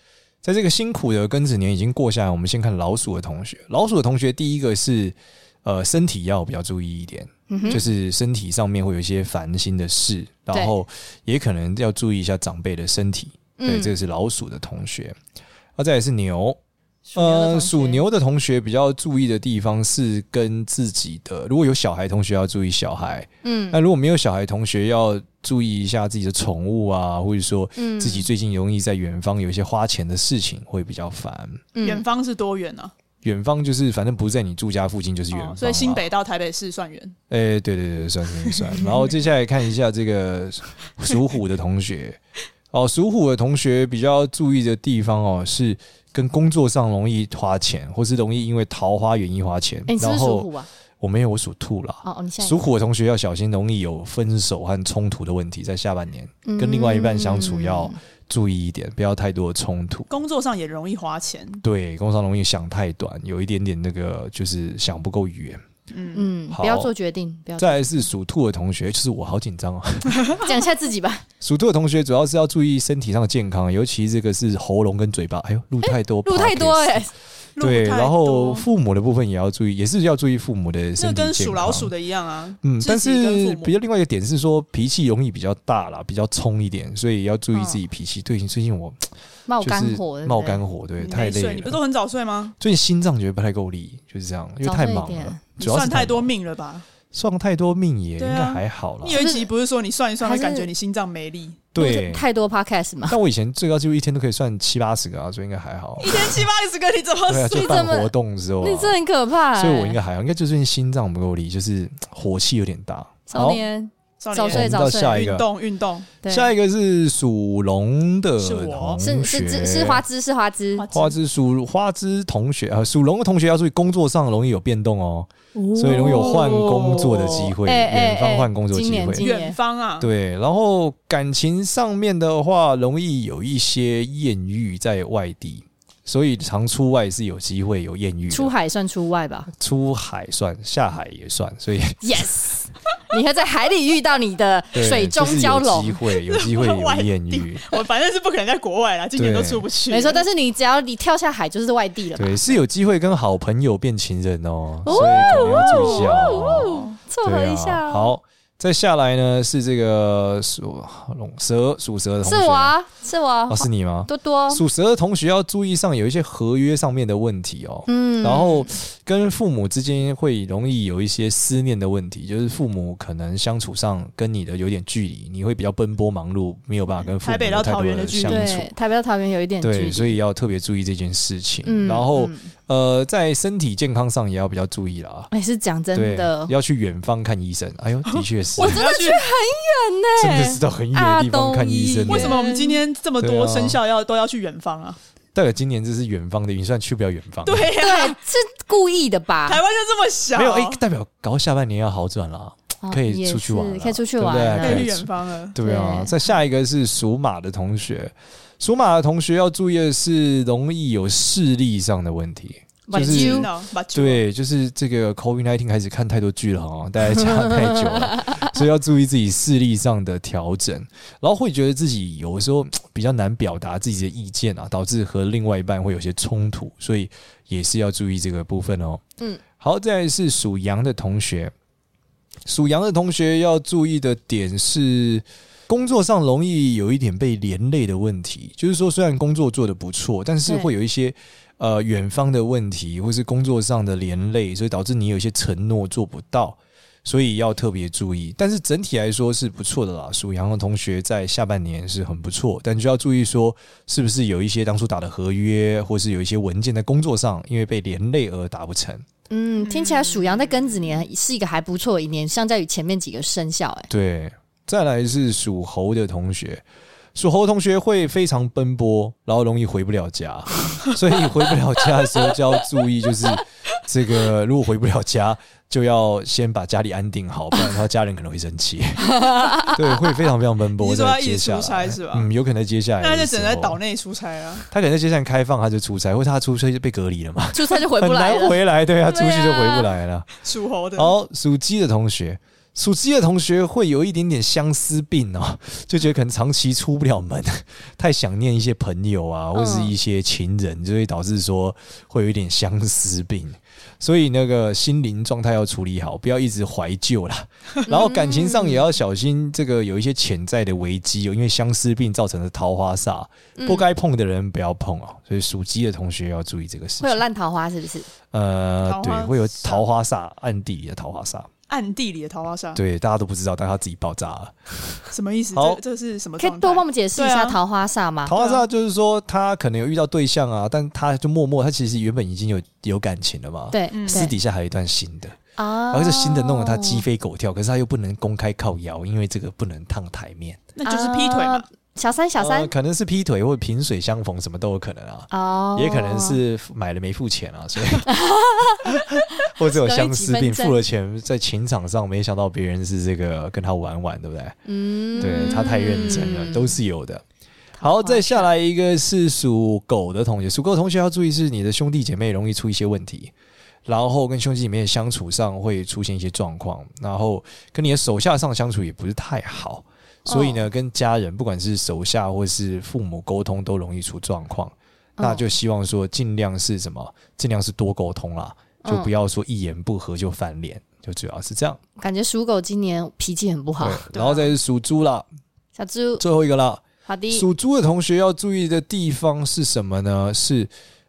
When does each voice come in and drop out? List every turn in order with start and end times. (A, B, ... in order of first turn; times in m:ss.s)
0:00.4-0:15.2 A
0:07.5-0:07.8 B
0:13.6-0:13.9 B
0:15.8-0:16.6 A
0:17.1-0:18.0 B
0:17.1-0:31.6 A
0:23.4-0:23.8 B
0:27.8-0:28.3 B
0:31.7-0:32.0 B
0:31.8-0:32.9 C
0:33.2-0:36.1 A
0:35.3-0:37.2 C
0:37.3-0:42.2 A
0:38.5-0:39.1 C
0:42.7-0:50.5 A
0:49.9-0:50.7 B
0:51.0-1:00.1 A
0:52.0-0:52.6 B
0:56.4-0:58.0 B
1:00.1-1:01.6 C
1:01.6-1:05.6 A
1:05.9-1:06.3 C
1:06.1-1:08.0 B
1:06.5-1:06.9 A
1:07.6-1:10.3 A
1:10.4-1:11.2 B
1:11.4-1:17.0 A
1:15.8-1:17.1 B
1:17.6-1:18.6 C
1:17.6-1:21.9 A
1:21.0-1:23.7 C
1:22.6-1:29.0 A
1:27.5-1:27.8 B
1:29.5-1:30.6 B
1:29.6-1:31.8 A
1:31.0-1:32.5 C
1:32.6-1:36.3 A
1:34.6-1:35.4 B
1:35.6-1:36.8 C
1:37.1-1:39.2 A
1:38.2-1:41.6 C
1:39.1-1:39.5 B
1:40.2-1:40.7 B
1:41.7-1:42.2 A
1:41.8-1:43.2 B
1:43.1-1:46.5 A
1:46.0-1:47.7 C
1:47.3-1:49.0 A
1:47.5-1:50.0 B
1:49.6-1:53.6 A
1:53.3-1:55.2 B
1:54.2-1:56.1 C
1:54.5-1:55.5 A
1:56.2-1:56.5 B
1:56.3-2:00.0 A
1:58.4-1:59.0 C
1:59.0-2:00.9 B
2:00.8-2:01.2 C
2:00.9-2:09.3 A
2:05.5-2:09.6 B
2:06.1-2:07.0 C
2:09.2-2:10.1 C
2:10.0-2:18.5 A
2:18.3-2:19.5 B
2:19.5-2:22.0 A
2:22.0-2:26.0 B
2:24.7-2:27.6 A
2:26.3-2:30.2 C
2:29.2-2:29.6 A
2:29.9-2:32.6 B
2:32.2-2:42.7 A
2:34.8-2:38.1 B
2:34.9-2:37.0 C
2:42.2-2:44.6 B
2:43.5-2:58.7 A
2:47.9-2:48.7 B
2:57.2-2:58.7 C
2:58.2-3:00.2 B
2:59.6-3:05.3 A
3:01.6-3:02.5 B
3:05.3-3:06.5 B
3:05.9-3:08.8 A
3:08.1-3:09.3 C
3:08.6-3:12.8 B
3:10.2-3:12.4 A
3:12.1-3:15.0 C
3:13.2-3:13.8 A
3:15.3-3:17.7 A
3:17.4-3:18.2 C
3:17.8-3:19.6 B
3:19.4-3:20.8 C
3:20.3-3:49.0 A
3:22.8-3:24.9 B
3:24.6-3:25.6 C
3:25.6-3:26.1 B
3:32.9-3:33.5 B
3:32.9-3:34.2 C
3:37.1-3:38.5 B
3:49.6-3:51.5 A
3:52.4-4:19.0 A
4:19.3-4:23.9 B
4:19.6-4:20.6 C
4:23.9-4:26.6 A
4:27.1-4:43.8 A
4:39.0-4:40.0 B
4:40.8-4:42.3 C
4:43.0-4:44.7 C
4:44.7-4:50.4 A
4:47.5-4:49.9 B
4:50.4-4:51.1 C
4:50.9-5:17.2 A
4:59.5-4:59.9 B
5:07.9-5:08.9 B
5:13.6-5:13.8 B
5:17.0-5:18.1 B
5:18.3-5:21.5 A
5:18.8-5:19.8 C
5:21.7-5:22.8 C
5:22.7-5:25.8 A
5:25.1-5:27.6 C
5:26.4-5:28.3 B
5:28.3-5:35.4 A
5:28.3-5:28.6 C
5:33.7-5:34.3 B
5:33.9-5:34.3 C
5:35.6-5:37.0 B
5:35.9-5:40.6 A
5:40.8-5:41.6 C
5:40.8-5:42.7 B
5:42.4-5:48.1 A
5:45.3-5:46.4 B
5:48.0-5:50.8 B
5:48.8-5:54.6 A
5:54.6-5:56.8 B
5:55.2-5:57.2 A
5:57.8-5:58.5 B
5:57.8-6:03.3 A
6:03.8-6:21.8 A
6:10.3-6:10.6 B
6:15.2-6:15.4 B
6:18.8-6:19.1 B
6:22.0-6:24.1 B
6:23.8-6:25.2 A
6:24.1-6:24.5 C
6:25.8-6:26.2 B
6:26.2-6:30.7 A
6:27.0-6:27.4 B